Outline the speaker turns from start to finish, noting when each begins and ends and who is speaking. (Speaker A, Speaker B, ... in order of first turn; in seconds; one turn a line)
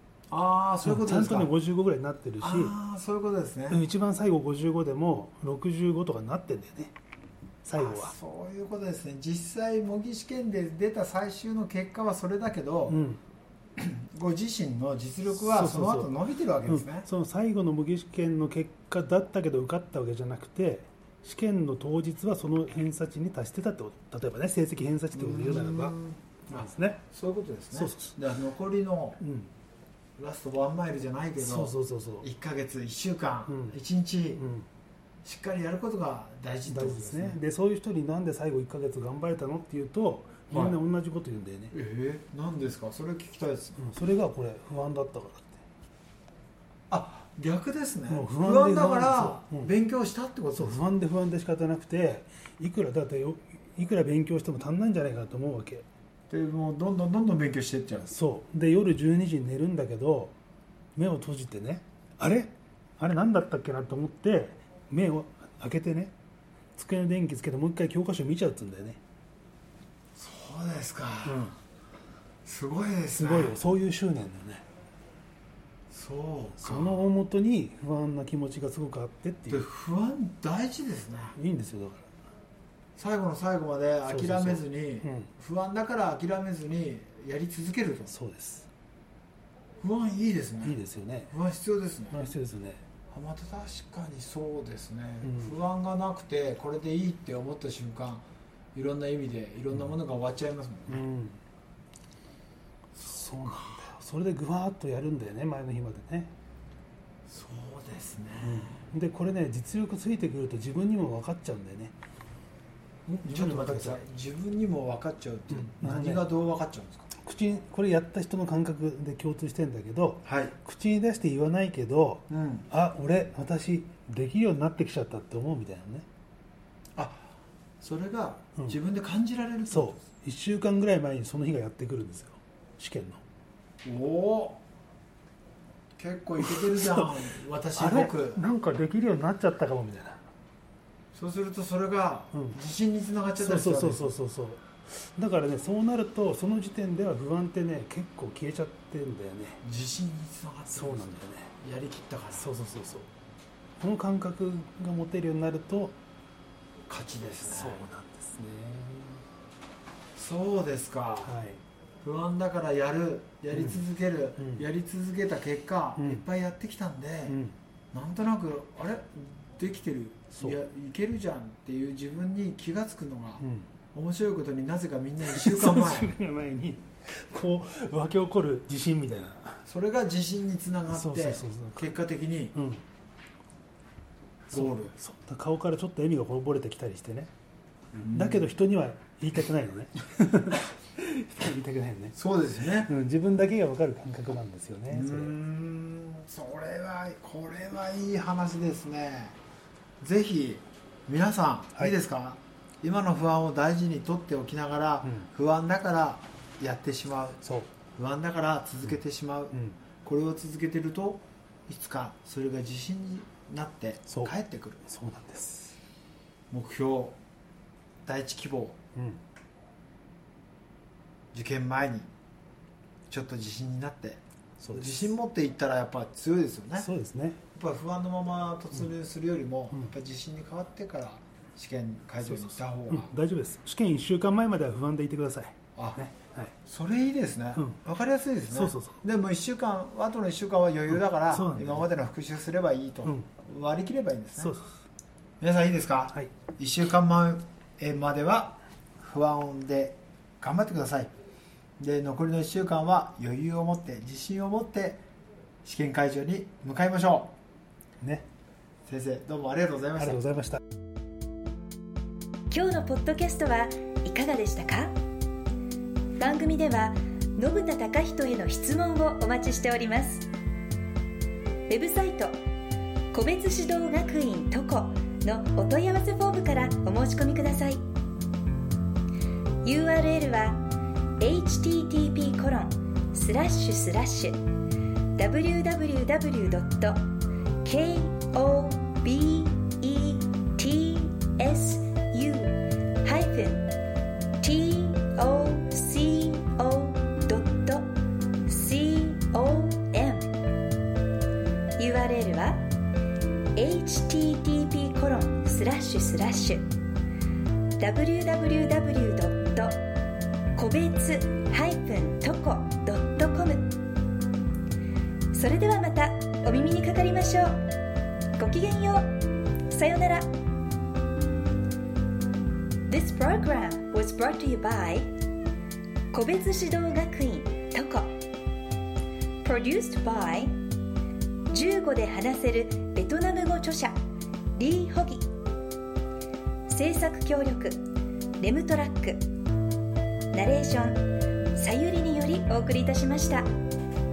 Speaker A: 0.3-1.5
Speaker B: 0.8-2.8
Speaker A: 2.4-3.8
Speaker B: 3.7-6.9
Speaker B: 7.7-8.1
Speaker A: 7.8-13.0
Speaker B: 12.9-13.2
Speaker A: 13.8-17.1
Speaker B: 15.3-16.1
Speaker B: 16.7-26.0
Speaker A: 25.1-29.2
Speaker B: 26.5-27.0
Speaker B: 27.7-28.2
Speaker B: 29.2-29.5
Speaker A: 30.2-34.4
Speaker B: 31.4-32.3
Speaker B: 33.5-33.8
Speaker B: 34.4-34.7
Speaker A: 35.2-37.4
Speaker B: 36.7-41.8
Speaker A: 40.5-40.8
Speaker A: 41.7-43.9
Speaker B: 43.8-45.6
Speaker A: 46.9-50.8
Speaker B: 48.1-49.7
Speaker B: 50.6-55.9
Speaker A: 56.3-58.1
Speaker B: 58.1-60.3
Speaker B: 61.0-66.1
Speaker B: 66.8-69.0
Speaker A: 70.2-71.6
Speaker B: 71.2-71.5
Speaker A: 72.5-73.6
Speaker B: 73.2-74.6
Speaker A: 75.9-77.0
Speaker B: 76.6-79.7
Speaker A: 79.5-81.4
Speaker B: 81.3-82.0
Speaker A: 83.0-88.1
Speaker B: 84.1-85.3
Speaker B: 88.1-88.7
Speaker A: 89.8-90.8
Speaker B: 90.6-91.3
Speaker A: 91.3-92.2
Speaker B: 92.1-92.8
Speaker A: 93.1-101.0
Speaker B: 95.2-95.6
Speaker B: 100.9-101.4
Speaker B: 103.0-106.3
Speaker A: 103.4-103.9
Speaker A: 107.3-108.8
Speaker B: 108.4-111.9
Speaker A: 113.1-117.1
Speaker B: 113.2-114.0
Speaker B: 115.5-116.3
Speaker B: 117.2-126.0
Speaker A: 120.2-120.6
Speaker A: 122.3-122.7
Speaker A: 127.0-130.0
Speaker B: 129.7-133.2
Speaker A: 133.8-134.6
Speaker A: 136.0-138.4
Speaker B: 136.4-137.2
Speaker B: 137.8-140.2
Speaker A: 141.1-144.2
Speaker B: 143.4-149.6
Speaker A: 149.6-152.5
Speaker B: 150.7-151.5
Speaker B: 152.3-153.1
Speaker B: 153.8-156.0
Speaker A: 156.9-157.9
Speaker B: 157.4-159.2
Speaker A: 160.2-161.4
Speaker B: 161.2-161.6
Speaker A: 162.0-167.4
Speaker B: 163.5-163.8
Speaker B: 164.4-164.7
Speaker B: 166.0-166.2
Speaker B: 167.3-167.6
Speaker A: 167.9-176.1
Speaker B: 173.4-173.7
Speaker B: 175.2-179.6
Speaker A: 179.7-182.6
Speaker B: 180.9-182.0
Speaker B: 182.5-182.8
Speaker A: 184.5-184.9
Speaker B: 184.5-187.3
Speaker A: 187.9-188.5
Speaker B: 188.0-195.3
Speaker A: 192.2-192.9
Speaker A: 194.9-199.4
Speaker A: 200.0-207.4
Speaker B: 207.4-207.7
Speaker A: 207.9-214.8
Speaker B: 214.1-214.3
Speaker B: 214.9-215.8
Speaker A: 216.5-217.2
Speaker A: 218.1-218.8
Speaker A: 221.3-222.1
Speaker A: 223.1-226.9
Speaker B: 224.6-225.1
Speaker B: 226.8-227.4
Speaker A: 227.6-233.2
Speaker B: 232.2-236.5
Speaker A: 235.8-236.0
Speaker A: 236.6-244.5
Speaker B: 237.6-237.8
Speaker B: 238.5-239.0
Speaker B: 240.9-241.9
Speaker B: 244.4-244.7
Speaker A: 245.4-251.1
Speaker A: 251.8-255.0
Speaker A: 255.6-257.3
Speaker B: 258.0-258.3
Speaker A: 258.9-260.2
Speaker B: 260.0-260.6
Speaker C: 262.5-264.9
Speaker C: 266.2-270.3
Speaker C: 271.7-272.4
Speaker C: 273.1-277.8
Speaker C: 279.6-280.6
Speaker C: 281.2-284.4
Speaker C: 285.2-287.0
Speaker C: 287.6-293.7
Speaker C: 294.4-297.9
Speaker C: 298.5-300.3
Speaker C: 301.8-302.6
Speaker C: 303.6-306.7
Speaker C: 307.8-309.8
Speaker C: 310.6-313.7
Speaker C: 315.3-317.6
Speaker C: 318.4-319.1
Speaker C: 319.7-320.3
Speaker C: 322.9-325.1
Speaker C: 326.1-328.1
Speaker C: 329.4-330.6
Speaker C: 331.5-333.9
Speaker C: 334.6-335.3
Speaker C: 336.7-337.8
Speaker C: 338.4-339.2
Speaker C: 340.3-341.0
Speaker C: 341.6-343.5